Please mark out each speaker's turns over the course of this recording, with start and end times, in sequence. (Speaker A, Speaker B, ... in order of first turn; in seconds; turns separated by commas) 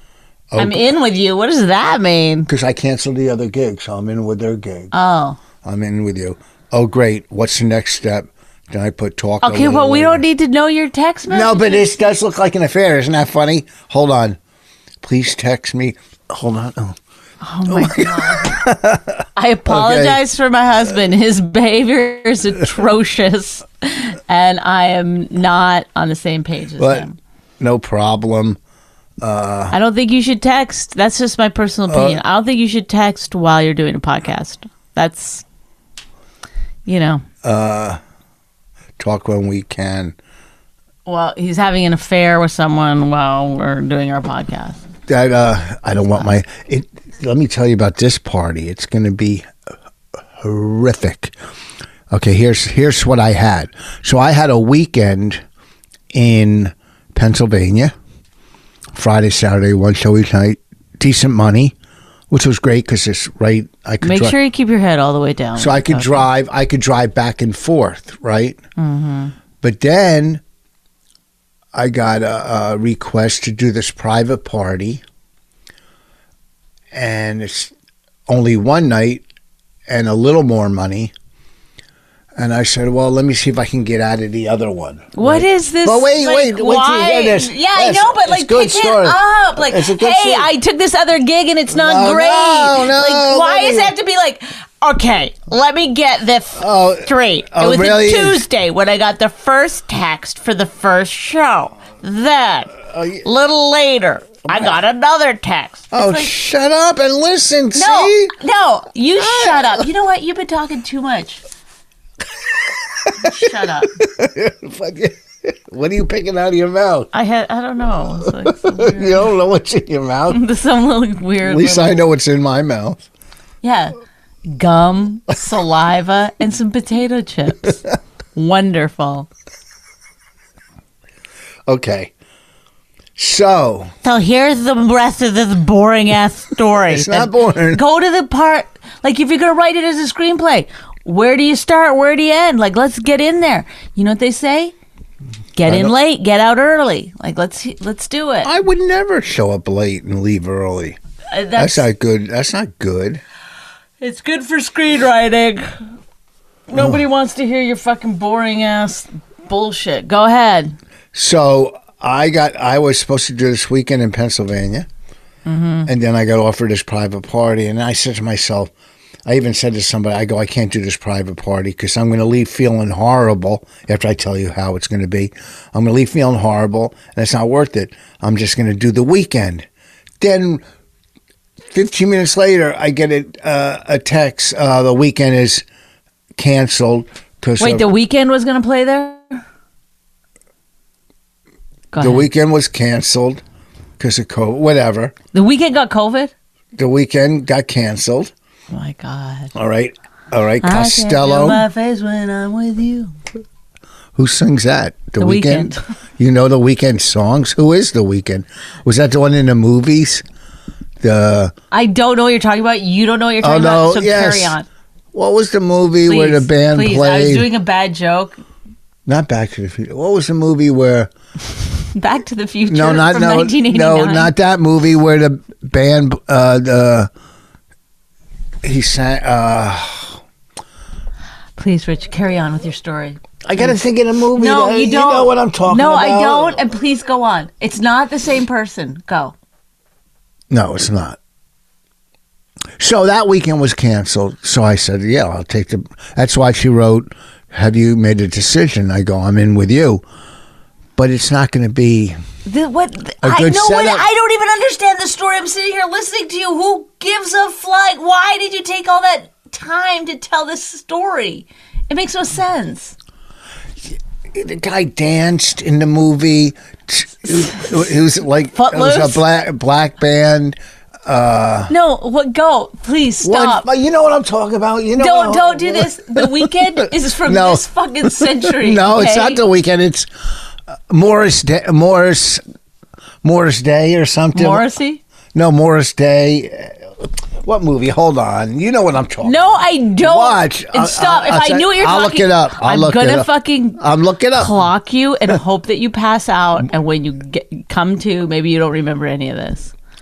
Speaker A: 0.5-0.9, Speaker B: 0.6-2.5, Speaker A: 2.5-4.9, Speaker B: 4.9-5.4, Speaker A: 5.6-10.2, Speaker B: 9.4-11.9, Speaker A: 11.3-14.4, Speaker A: 15.0-17.0, Speaker B: 17.4-18.6, Speaker A: 17.7-20.2, Speaker B: 19.4-27.2, Speaker A: 26.8-27.1, Speaker A: 27.6-28.6, Speaker A: 29.2-29.8, Speaker B: 29.7-35.4, Speaker A: 31.9-32.2, Speaker B: 36.9-37.2, Speaker A: 37.4-38.0, Speaker A: 39.0-40.1, Speaker B: 41.0-44.8, Speaker A: 45.1-49.5, Speaker A: 50.4-51.3, Speaker A: 52.1-55.4, Speaker A: 56.1-57.9, Speaker A: 58.9-61.7, Speaker A: 62.3-64.3, Speaker B: 64.0-66.3, Speaker A: 65.5-68.6, Speaker B: 68.8-69.3, Speaker A: 69.6-70.4, Speaker A: 71.7-75.0, Speaker A: 76.9-77.7, Speaker A: 78.3-79.2, Speaker A: 79.9-81.1, Speaker A: 82.3-90.5, Speaker B: 85.1-106.3, Speaker A: 91.7-93.9, Speaker A: 96.5-98.4, Speaker A: 102.9-103.2, Speaker A: 105.9-108.3, Speaker B: 107.7-111.4, Speaker A: 109.2-109.7, Speaker A: 113.0-117.1, Speaker B: 113.1-113.9, Speaker B: 117.1-119.3, Speaker A: 118.4-120.4, Speaker B: 120.3-122.0, Speaker A: 121.4-123.0, Speaker B: 123.6-127.8, Speaker B: 128.3-129.3, Speaker A: 131.7-132.1, Speaker A: 133.2-133.9, Speaker B: 134.0-144.7, Speaker A: 136.9-137.8, Speaker B: 145.5-148.5, Speaker A: 145.7-145.9, Speaker A: 148.4-151.0, Speaker B: 151.3-151.8, Speaker A: 151.6-153.2, Speaker B: 154.0-155.7, Speaker B: 156.7-160.8, Speaker A: 156.7-157.0, Speaker A: 161.1-164.9, Speaker B: 165.4-165.9, Speaker A: 165.8-168.7, Speaker A: 169.2-179.7, Speaker A: 180.2-180.6, Speaker A: 181.7-185.6, Speaker A: 186.3-187.8, Speaker B: 187.6-189.4, Speaker B: 191.9-192.3, Speaker A: 192.0-193.4, Speaker A: 194.0-195.1, Speaker B: 195.3-196.3, Speaker A: 196.7-198.3, Speaker B: 198.7-199.5, Speaker A: 199.5-201.6, Speaker B: 200.6-203.1, Speaker A: 204.1-210.2, Speaker B: 205.2-205.8, Speaker A: 211.0-211.5, Speaker B: 211.7-214.7, Speaker A: 213.4-214.6, Speaker A: 215.1-217.5, Speaker B: 216.1-218.4, Speaker A: 219.1-221.1, Speaker B: 221.9-224.3, Speaker A: 222.7-227.1, Speaker A: 228.6-230.2, Speaker B: 231.6-233.8, Speaker A: 233.4-236.6, Speaker B: 234.3-239.3, Speaker A: 240.5-241.2, Speaker A: 242.8-250.0, Speaker A: 250.9-252.2, Speaker B: 252.4-262.9, Speaker A: 253.2-254.0, Speaker A: 263.9-271.7, Speaker B: 267.3-267.9, Speaker B: 268.5-269.2, Speaker B: 271.7-273.7, Speaker A: 273.2-276.5, Speaker B: 274.9-279.4, Speaker A: 277.2-280.1, Speaker A: 280.9-282.4, Speaker A: 283.2-284.6, Speaker B: 284.3-285.0, Speaker A: 285.3-289.4, Speaker B: 289.2-293.8, Speaker A: 290.0-294.5, Speaker B: 294.3-299.7